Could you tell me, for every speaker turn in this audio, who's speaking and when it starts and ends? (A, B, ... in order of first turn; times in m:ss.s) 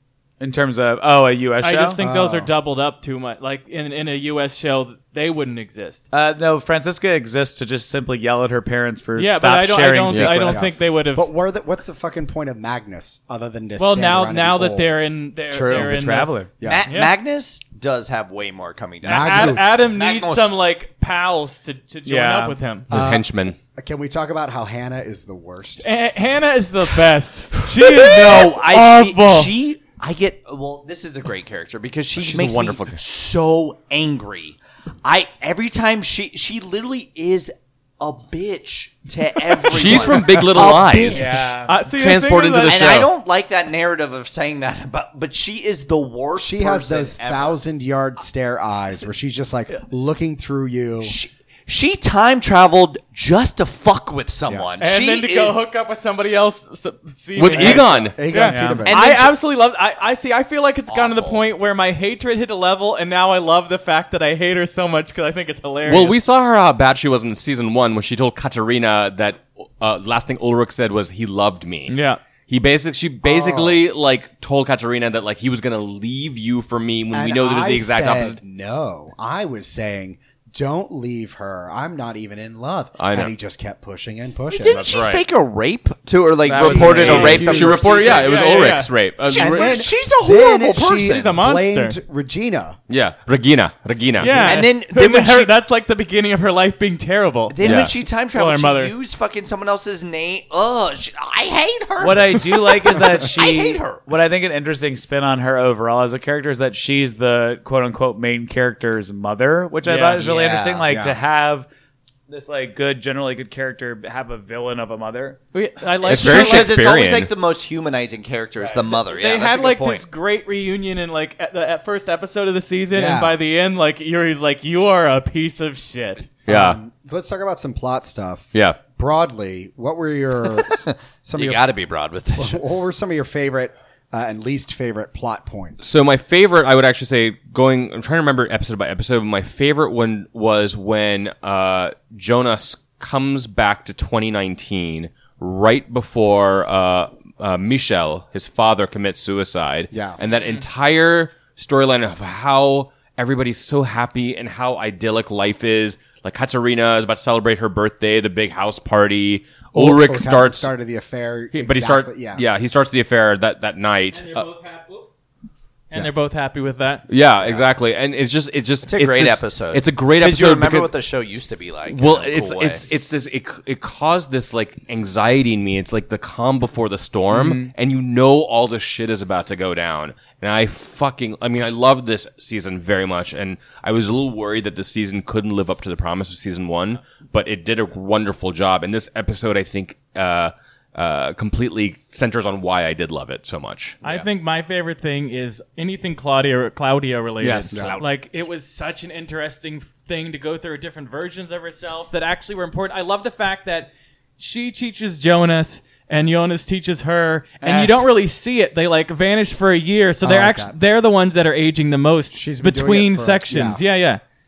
0:00.4-0:02.0 A
0:01.6-0:06.0 B
0:02.0-0:02.5 C
0:06.1-0:10.6 A
0:09.2-0:11.3 B
0:10.1-0:10.5 D
0:10.4-0:15.1 C
0:13.8-0:17.1 B
0:15.5-0:16.5 A
0:16.6-0:16.8 C
0:16.6-0:20.5 E
0:19.0-0:22.8 B
0:19.0-0:19.7 C
0:22.0-0:22.6 A
0:22.9-0:23.6 D
0:22.9-0:25.8 C
0:25.8-0:29.5 B
0:27.7-0:41.4 E
0:32.2-0:33.0 D
0:39.7-0:43.1 D
0:39.8-0:41.5 C
0:41.1-0:41.7 A
0:41.6-0:42.9 B
0:42.6-0:47.5 E
0:46.3-0:51.1 C
0:51.0-0:55.6 E
0:54.8-1:06.2 B
0:57.4-0:58.2 D
0:57.5-0:59.0 C
0:58.3-0:58.8 A
0:58.8-0:59.3 E
1:00.9-1:01.4 E
1:05.8-1:11.9 D
1:11.9-1:12.2 B
1:12.5-1:18.4 D
1:13.2-1:13.8 C
1:17.1-1:24.9 C
1:23.0-1:23.3 D
1:24.5-1:28.3 E
1:24.7-1:25.2 D
1:26.4-1:28.3 A
1:26.5-1:29.8 D
1:26.8-1:27.5 B
1:26.9-1:27.9 C
1:28.0-1:28.9 B
1:29.3-1:31.3 E
1:29.3-1:32.8 C
1:31.0-1:32.0 B
1:32.9-1:34.7 D
1:34.2-1:37.7 B
1:34.3-1:35.5 E
1:37.5-1:44.1 E
1:37.6-1:37.9 D
1:38.3-1:38.9 B
1:42.0-1:51.7 A
1:49.8-1:50.2 B
1:50.0-1:50.9 E
1:50.9-1:51.2 C
1:52.3-1:55.4 A
1:55.5-1:56.8 B
1:56.0-2:00.0 E
1:56.0-1:57.3 D
1:58.6-1:58.9 A
1:59.0-2:06.3 B
2:02.9-2:03.4 C
2:06.5-2:06.8 D
2:06.5-2:11.7 C
2:08.5-2:08.8 D
2:11.3-2:12.6 E
2:12.4-2:15.9 C
2:15.8-2:40.7 D
2:29.9-2:30.2 C
2:39.7-2:42.4 C
2:41.5-2:44.5 D
2:44.1-2:45.1 B
2:45.9-2:47.1 B
2:47.1-2:50.9 D
2:48.9-2:52.8 E
2:51.9-3:14.0 D
2:57.3-2:57.7 A
3:14.0-3:34.2 B
3:17.4-3:17.9 A
3:17.7-3:18.0 C
3:17.8-3:18.0 D
3:27.6-3:28.1 A
3:30.2-3:30.8 C
3:32.3-3:33.8 C